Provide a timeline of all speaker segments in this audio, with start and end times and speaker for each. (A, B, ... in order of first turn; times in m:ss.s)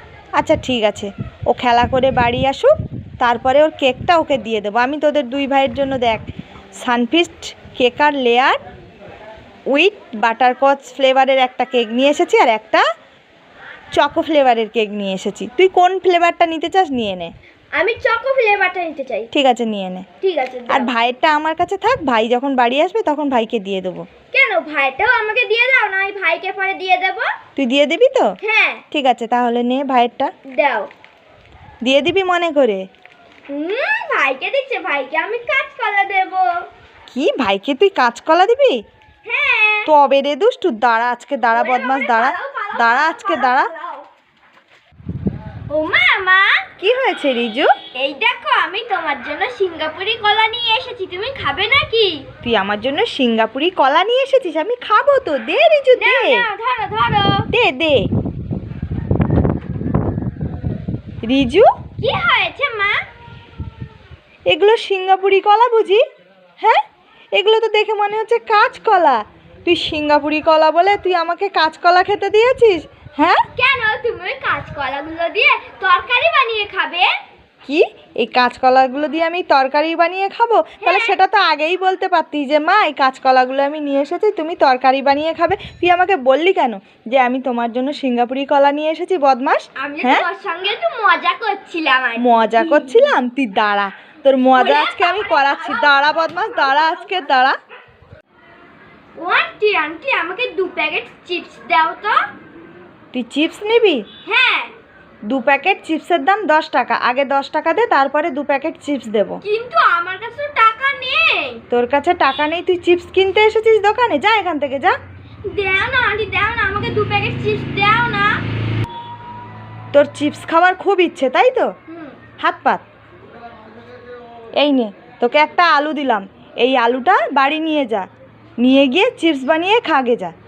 0:00.4-0:06.3 A
0:06.8-0:08.6 A
0:09.7-0:12.8 A
0:13.9-0:17.3 A
0:17.7-0:19.3 B
0:19.3-0:20.0 A
0:20.2-0:20.9 B
0:20.7-0:24.0 A
0:24.3-0:27.3 B
0:27.6-0:28.3 A
0:28.4-0:28.8 B
0:28.9-0:30.3 A
0:30.5-0:30.9 B
0:31.8-0:32.8 A
0:33.5-0:36.7 B
0:37.1-0:38.8 A
0:39.2-0:39.9 B
0:39.8-0:43.7 A
0:41.5-0:44.1 B
0:45.7-0:46.6 B
0:46.8-0:47.7 A
0:47.9-0:52.2 B
0:52.4-0:56.4 A
0:55.9-0:57.5 B
0:57.5-0:58.1 A
1:01.2-1:01.7 A
1:02.0-1:03.0 B
1:04.5-1:06.0 A
1:07.3-1:13.4 A
1:13.6-1:17.1 B
1:17.6-1:30.2 A
1:20.8-1:21.2 B
1:29.8-1:33.2 B
1:32.2-1:37.6 A
1:34.5-1:37.2 B
1:39.2-1:42.2 B
1:43.1-1:44.0 A
1:44.2-1:44.7 B
1:45.3-1:49.4 A
1:49.4-1:51.6 B
1:51.7-1:54.9 A
1:55.4-1:58.4 B
1:59.9-2:01.7 A
2:01.9-2:02.2 B
2:02.4-2:02.8 A
2:04.6-2:08.1 A
2:08.6-2:10.3 A